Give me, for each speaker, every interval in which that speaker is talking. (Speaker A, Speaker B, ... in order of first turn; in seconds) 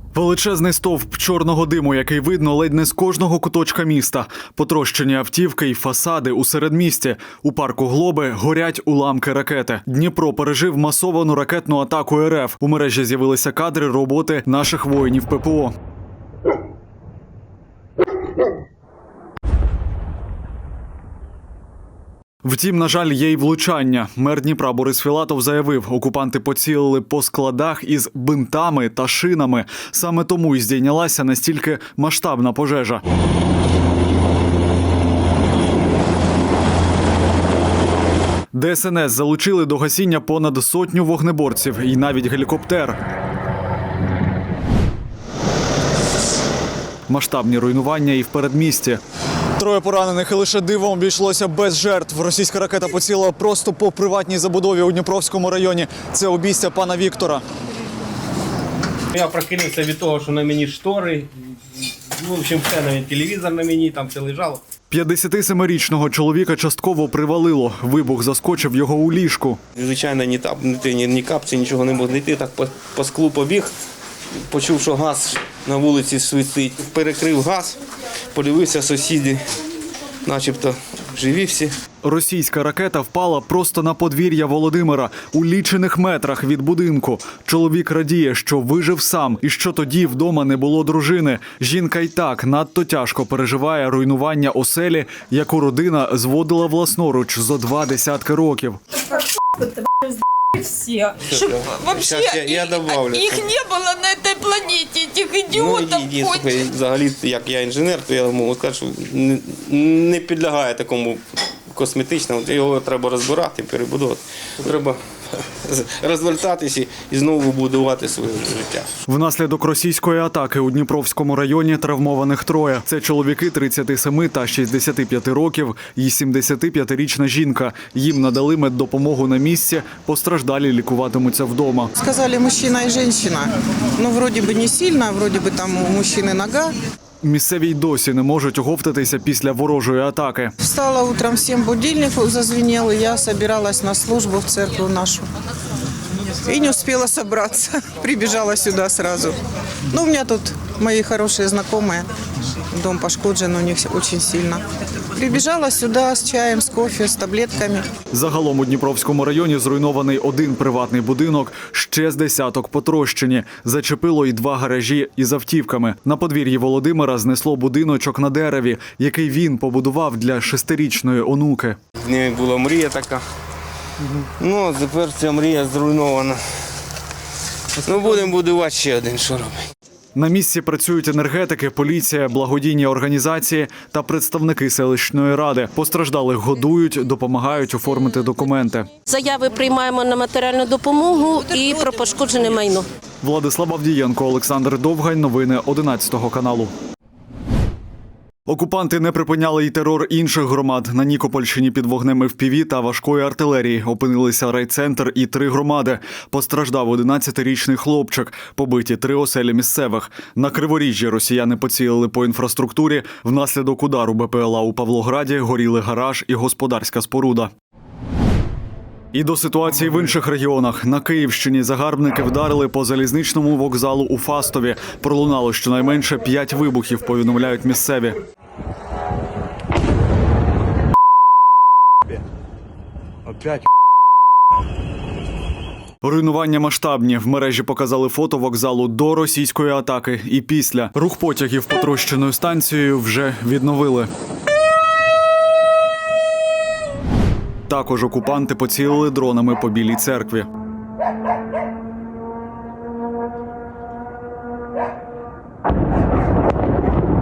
Speaker A: 0.1-15.7, 22.4-33.0, 38.5-43.0, 47.1-49.0, 49.5-57.4, 64.9-69.6, 82.0-98.8, 119.0-131.9, 137.2-140.5, 158.1-171.8, 180.1-188.9, 193.2-196.7, 198.5-217.5, 219.1-228.2, 236.0-244.1, 247.7-250.5
Speaker B: 59.1-64.6, 69.8-73.7, 74.5-77.8, 78.3-79.4, 80.2-81.7, 101.3-103.5, 105.5-118.9, 172.0-173.2, 174.4-176.4, 177.8-179.6
Speaker C: 100.5-106.6
Speaker D: 132.0-136.7, 140.6-145.2, 146.4-149.4, 149.9-152.1, 152.7-157.9
Speaker E: 189.0-192.9